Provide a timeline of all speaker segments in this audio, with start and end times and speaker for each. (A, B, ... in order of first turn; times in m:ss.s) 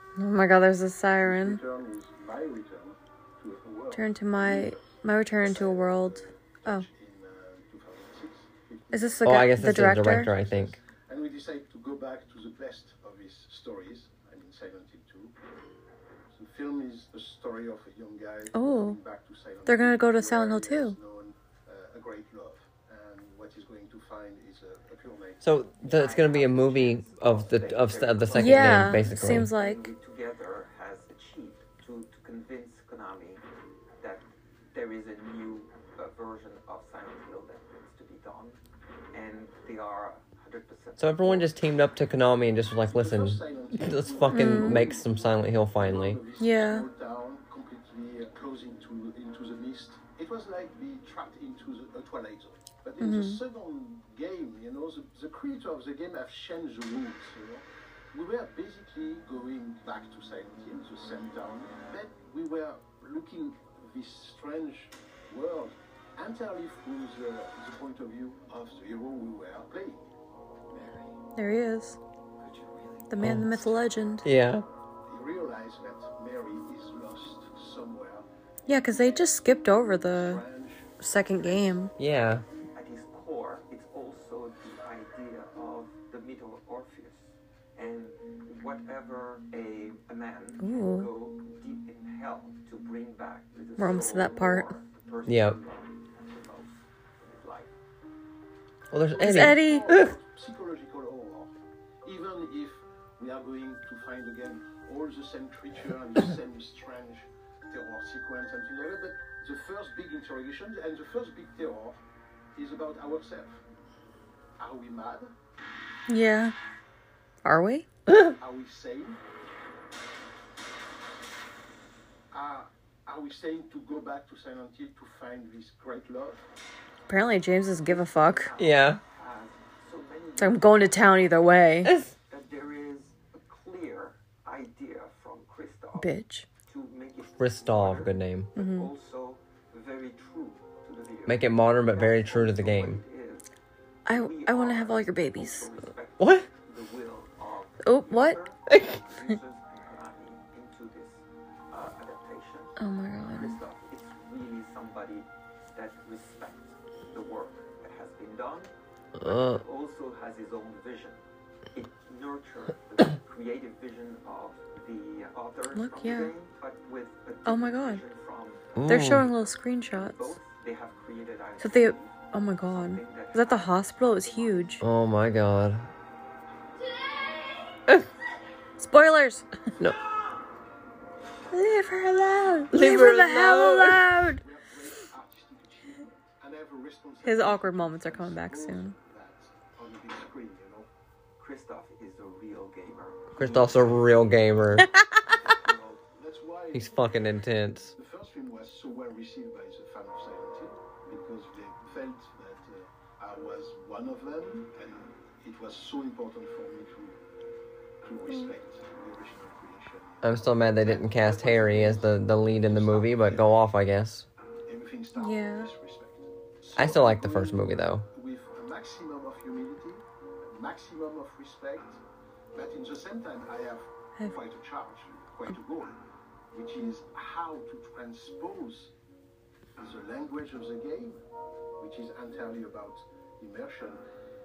0:00.2-0:01.6 A
0:01.2-0:04.8 B
0:03.9-0:06.9 A
0:05.4-0:15.3 B
0:08.9-0:10.3 A
0:09.2-0:10.8 C
0:16.3-0:25.4 B
0:18.5-0:19.0 A
0:19.7-0:21.0 A
0:25.4-0:29.5 C
0:25.7-0:33.4 D
0:28.3-0:29.9 A
0:34.0-0:38.6 D
0:39.1-0:41.4 D
0:41.0-0:46.2 C
0:42.8-1:10.1 B
0:44.3-0:44.9 A
0:46.4-0:46.9 A
0:53.0-0:53.4 A
1:10.7-1:11.2 B
1:11.4-1:12.0 A
1:12.4-1:13.0 D
1:13.1-1:14.3 A
1:13.2-1:13.7 C
1:14.2-1:14.6 C
1:15.1-1:21.9 B
1:18.7-1:20.4 A
1:21.0-1:21.9 A
1:22.0-1:22.4 C
1:22.7-1:37.7 D
1:30.6-1:31.1 A
1:33.8-1:34.7 A
1:35.3-1:35.6 C
1:38.9-1:40.1 C
1:39.1-1:52.0 B
1:39.2-1:39.9 A
1:52.6-1:53.6 B
1:54.6-1:55.3 B
1:56.1-1:56.5 A
1:57.4-1:57.9 A
1:58.1-1:58.3 C
1:58.4-1:59.2 B
2:02.3-2:06.4 B
2:07.1-2:08.5 A
2:07.8-2:11.7 D
2:08.6-2:09.0 C
2:10.4-2:11.9 A
2:12.3-2:16.1 D
2:16.0-2:16.5 A
2:16.7-2:23.5 D
2:17.4-2:18.5 C
2:18.6-2:18.9 A
2:21.3-2:23.0 C
2:24.1-2:25.7 A
2:24.1-2:41.2 D
2:26.2-2:26.5 C
2:27.8-2:28.4 A
2:28.7-2:29.0 C
2:32.8-2:33.6 A
2:39.2-2:39.6 C
2:41.7-2:54.8 D
2:45.8-2:46.3 A
2:47.5-2:48.0 A
2:48.8-2:49.3 C
2:48.9-2:50.4 A
2:51.6-2:54.8 A
2:54.8-2:55.9 C
2:58.8-2:59.5 A
3:01.5-3:04.4 A
3:02.7-3:04.1 C
3:04.2-3:10.9 B
3:07.2-3:09.0 A
3:11.4-3:13.4 D
3:13.3-3:14.9 C
3:13.4-3:14.0 B
3:15.4-3:17.3 B
3:16.7-3:17.9 C
3:18.0-3:27.2 B
3:28.0-3:33.6 B
3:30.2-3:34.3 C
3:34.7-3:42.0 B
3:35.2-3:35.7 A
3:36.8-3:38.1 C
3:42.5-3:46.0 B
3:46.5-3:48.9 B
3:49.8-3:51.2 B
3:51.8-3:54.0 B